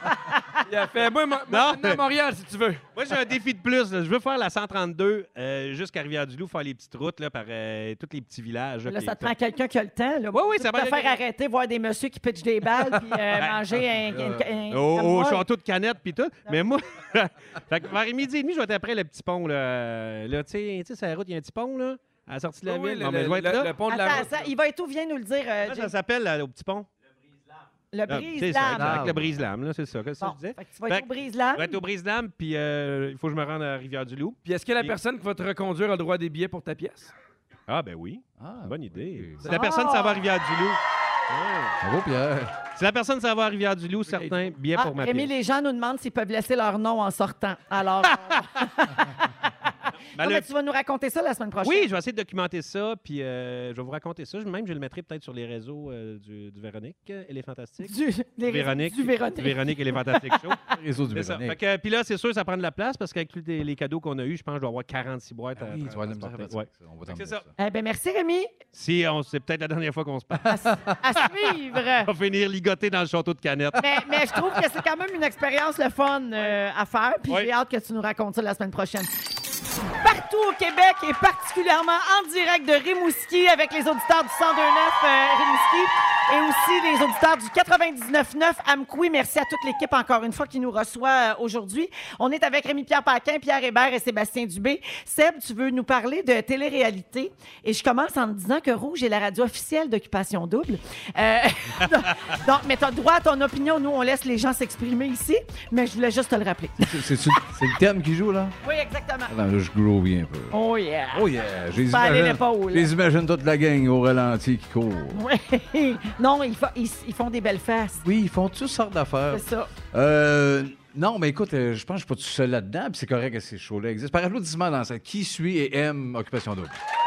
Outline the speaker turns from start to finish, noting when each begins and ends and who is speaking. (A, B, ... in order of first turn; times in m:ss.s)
0:00.6-0:02.8 A
0:01.5-0:02.0 B
0:02.9-0:09.3 B
0:08.9-0:15.4 C
0:10.3-0:11.2 B
0:13.4-0:13.6 B
0:14.1-0:14.5 D
0:14.7-0:24.3 B
0:22.6-0:24.3 A
0:23.9-0:25.9 C
0:25.6-0:26.9 B
0:27.9-0:29.1 C
0:28.1-0:35.0 B
0:28.6-0:29.4 D
0:30.2-0:31.8 C
0:34.4-0:37.1 A
0:37.7-0:41.8 B
0:38.4-0:39.5 D
0:39.5-0:40.2 C
0:41.8-0:42.6 D
0:42.7-0:45.3 B
0:44.0-0:44.5 A
0:44.7-0:49.3 C
0:50.0-0:50.5 B
0:50.2-0:51.9 C
0:51.6-0:57.9 B
0:57.8-1:00.5 C
0:58.5-1:00.6 B
1:00.6-1:01.6 D
1:01.1-1:07.4 B
1:05.6-1:07.5 D
1:07.6-1:08.5 C
1:08.7-1:10.6 B
1:10.5-1:12.1 C
1:11.3-1:14.5 B
1:13.8-1:19.1 C
1:19.9-1:47.0 C
1:46.8-1:48.5 D
1:48.6-1:49.3 C
1:49.3-1:50.6 D
1:50.5-1:52.9 C
1:51.1-1:55.2 D
1:55.1-1:58.0 C
1:58.0-2:06.8 D
1:59.3-1:59.7 C